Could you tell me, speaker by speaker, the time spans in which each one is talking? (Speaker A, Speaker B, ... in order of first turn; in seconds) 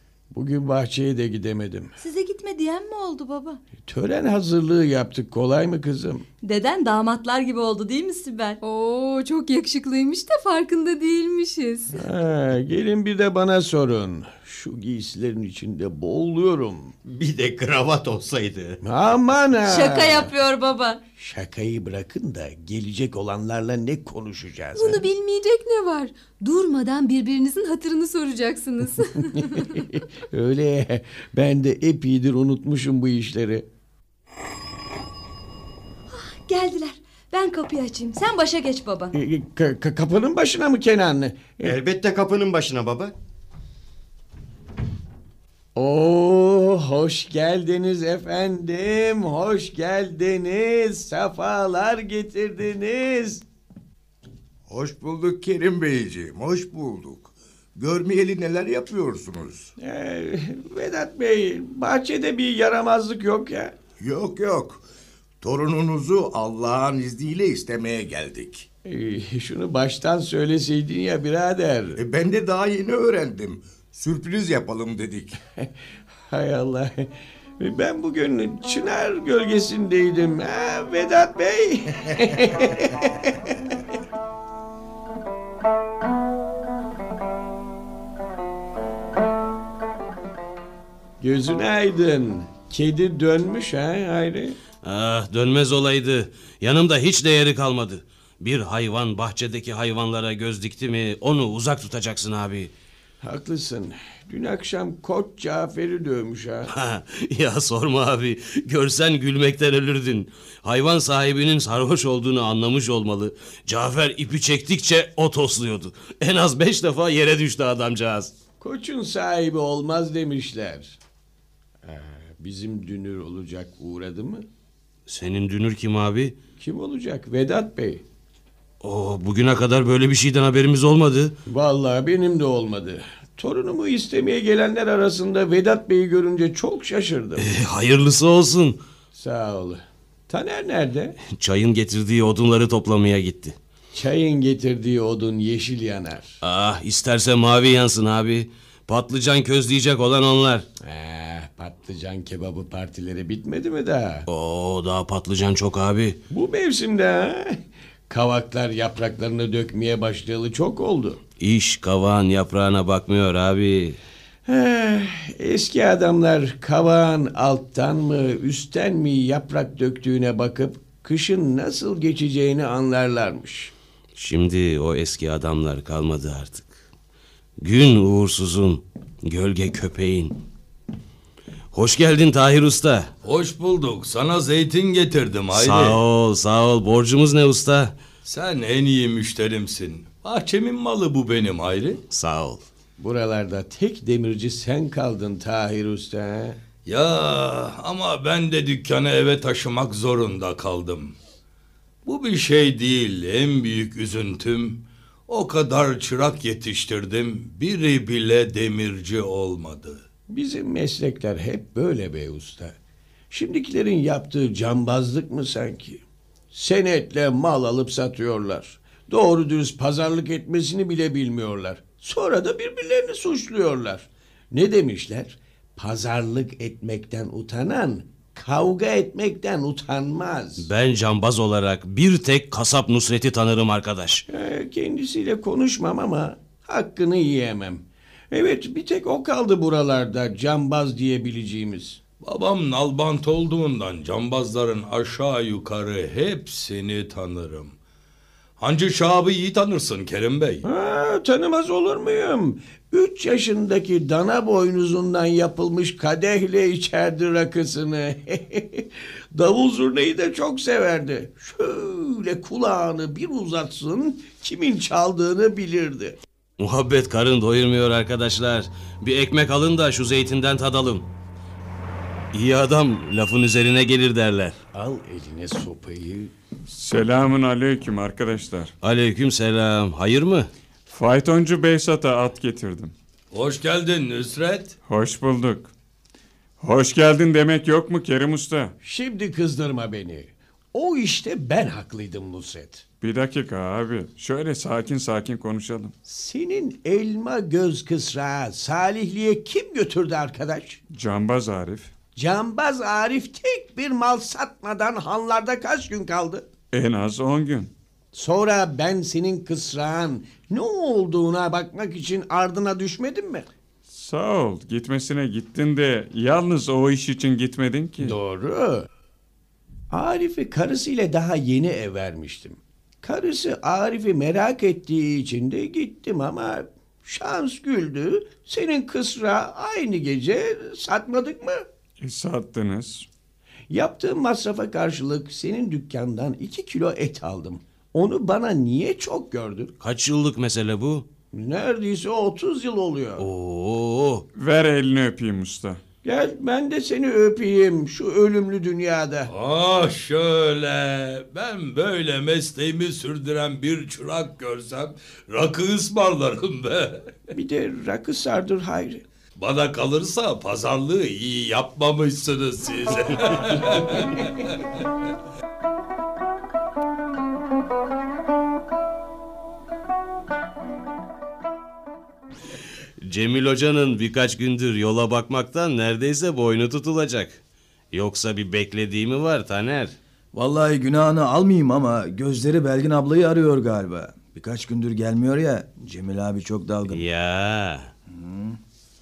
Speaker A: 0.3-1.9, 3.8-6.2, 11.9-16.9, 18.8-20.3, 21.2-25.0, 29.2-33.6, 39.1-41.7, 45.7-53.4, 59.8-63.7, 68.8-72.0, 76.3-83.5, 91.2-94.6, 103.2-106.7, 118.6-121.0, 121.8-124.5, 126.6-128.0, 131.5-137.5, 139.1-141.2, 143.9-146.4, 150.8-154.2, 156.3-161.2, 164.4-173.7, 193.0-196.6, 210.3-212.8, 213.3-230.7, 234.3-242.0, 250.6-266.2, 274.7-276.3, 288.8-292.8, 296.1-300.8, 302.1-306.4, 308.1-313.5, 318.0-318.9, 319.9-331.6, 333.7-339.7, 341.3-343.2, 346.0-349.3, 357.3-359.0
Speaker B: 2.0-3.6, 6.4-8.6, 19.6-21.0, 36.1-39.1
Speaker C: 8.6-12.0, 24.8-29.9
Speaker D: 17.0-18.8, 41.6-43.1
Speaker E: 54.7-59.7, 64.0-64.8, 65.4-68.7, 72.0-75.4
Speaker F: 94.8-102.7, 106.7-118.3, 125.1-126.3, 128.8-131.3, 137.4-138.8, 141.3-143.6, 146.4-150.7, 154.3-156.2, 161.4-164.0, 174.2-176.7, 177.6-180.4, 181.7-183.1, 185.5-187.9, 192.1-192.6, 230.6-234.2, 266.6-271.1, 272.3-274.6, 278.8-280.5, 339.8-341.1, 343.2-344.2, 373.0-377.4, 377.9-379.9, 386.9-387.9
Speaker G: 183.2-186.0, 188.2-192.0, 196.8-201.1, 202.0-210.0, 242.2-247.8, 248.6-250.6, 283.3-284.7, 349.3-357.1, 359.4-364.5
Speaker H: 276.7-278.7, 280.9-282.9, 284.9-285.7, 286.6-288.7, 293.0-295.9, 300.9-301.9, 306.7-307.7, 313.9-318.2, 332.0-333.1, 344.3-345.8
Speaker I: 380.3-387.0, 388.1-388.6